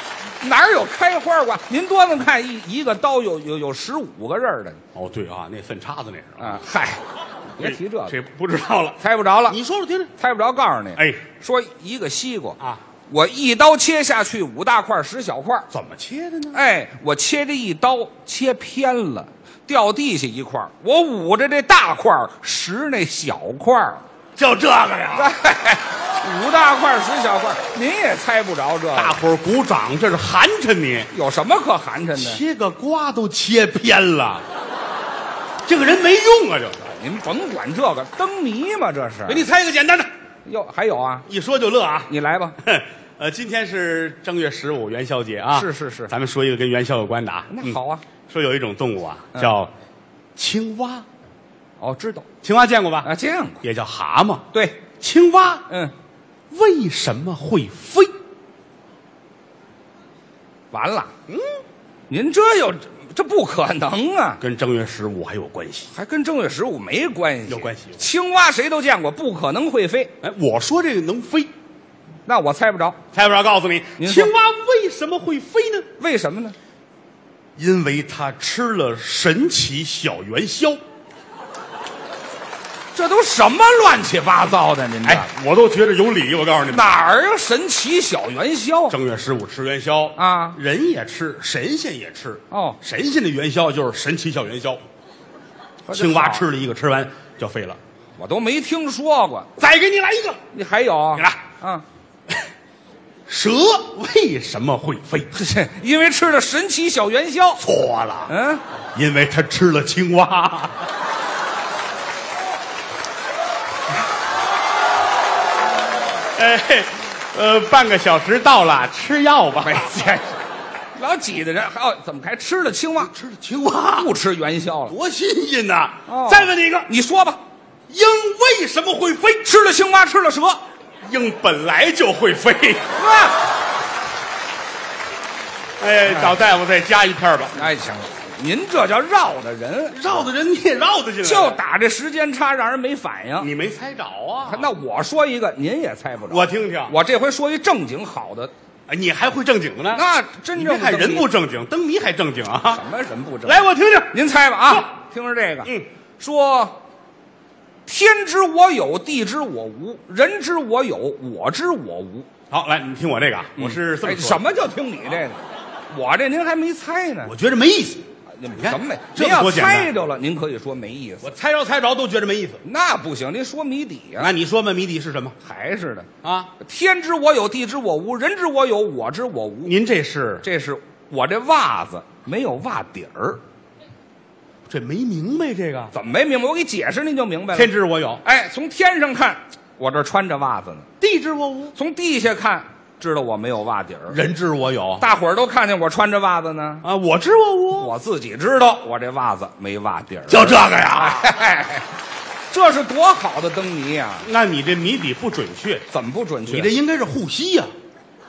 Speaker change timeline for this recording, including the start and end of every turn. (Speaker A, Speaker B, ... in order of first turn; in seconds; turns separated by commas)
Speaker A: 0.4-4.8, Speaker B: 4.9-6.6, Speaker A: 6.4-8.1, Speaker B: 7.6-10.1, Speaker A: 9.0-9.6, Speaker A: 10.2-12.6, Speaker B: 10.9-11.2, Speaker A: 13.1-15.7, Speaker B: 15.7-16.6, Speaker A: 16.5-24.0, Speaker B: 24.4-25.4, Speaker A: 25.1-29.2, Speaker B: 28.9-31.1, Speaker A: 31.1-32.4, Speaker B: 32.1-34.4, Speaker B: 35.7-36.8, Speaker A: 36.8-39.4, Speaker B: 39.2-40.1, Speaker A: 40.5-41.3, Speaker B: 41.3-49.7, Speaker A: 42.1-42.6, Speaker A: 45.5-46.1, Speaker A: 47.5-48.0, Speaker B: 50.4-51.0, Speaker A: 51.8-52.3, Speaker B: 52.4-53.1, Speaker A: 53.0-53.6, Speaker B: 53.6-54.5, Speaker A: 54.5-54.8, Speaker B: 55.0-55.6, Speaker B: 56.5-58.1, Speaker A: 60.7-61.1, Speaker A: 62.1-64.4, Speaker B: 64.4-65.9, Speaker A: 65.9-70.1, Speaker B: 67.5-68.0, Speaker B: 70.2-71.5, Speaker A: 72.2-73.0, Speaker B: 73.1-75.9, Speaker A: 74.0-74.3, Speaker A: 76.0-76.5, Speaker B: 77.5-80.8, Speaker A: 82.9-85.3, Speaker B: 85.0-86.9, Speaker A: 86.7-89.0, Speaker B: 88.9-94.8, Speaker A: 90.2-90.6, Speaker A: 92.5-92.8, Speaker A: 95.8-96.5, Speaker B: 95.9-97.8, Speaker A: 98.2-99.5, Speaker B: 99.6-100.4, Speaker A: 100.5-101.8, Speaker B: 101.2-101.4, Speaker B: 103.3-105.3, Speaker A: 105.3-107.6, Speaker B: 107.6-108.3, Speaker A: 108.3-108.6, Speaker B: 108.9-110.9, Speaker B: 116.3-119.9, Speaker A: 119.6-120.4, Speaker A: 120.9-123.1, Speaker B: 123.0-124.1, Speaker A: 123.9-124.9, Speaker B: 124.9-126.9, Speaker A: 126.1-127.4, Speaker B: 127.9-129.5, Speaker A: 129.4-130.6, Speaker B: 131.0-132.9, Speaker A: 132.9-133.4, Speaker B: 135.8-137.6, Speaker A: 136.1-136.3, Speaker A: 137.5-140.2, Speaker B: 139.9-141.6, Speaker A: 141.2-143.5, Speaker B: 143.4-144.7, Speaker A: 144.4-148.5, Speaker B: 146.2-146.9, Speaker B: 148.9-152.8, Speaker A: 149.9-151.3, Speaker A: 152.7-156.8, Speaker B: 153.4-154.9, Speaker A: 157.9-162.3, Speaker B: 162.5-164.4, Speaker A: 163.6-167.3, Speaker B: 167.2-169.9, Speaker A: 168.4-171.3, Speaker B: 171.2-172.6, Speaker A: 172.6-174.3, Speaker B: 174.2-175.3, Speaker A: 175.4-176.1, Speaker B: 176.2-176.5, Speaker A: 176.6-179.7, Speaker B: 179.6-180.4, Speaker A: 180.4-183.4, Speaker B: 184.7-185.9, Speaker A: 185.9-190.8, Speaker B: 187.5-188.2, Speaker B: 191.0-191.7, Speaker A: 191.7-194.2, Speaker B: 194.1-195.0, Speaker A: 195.0-196.8, Speaker B: 196.8-197.9, Speaker A: 197.7-201.9, Speaker B: 200.3-201.4, Speaker A: 202.5-204.3, Speaker B: 204.2-205.8, Speaker A: 205.9-206.7, Speaker B: 206.4-207.7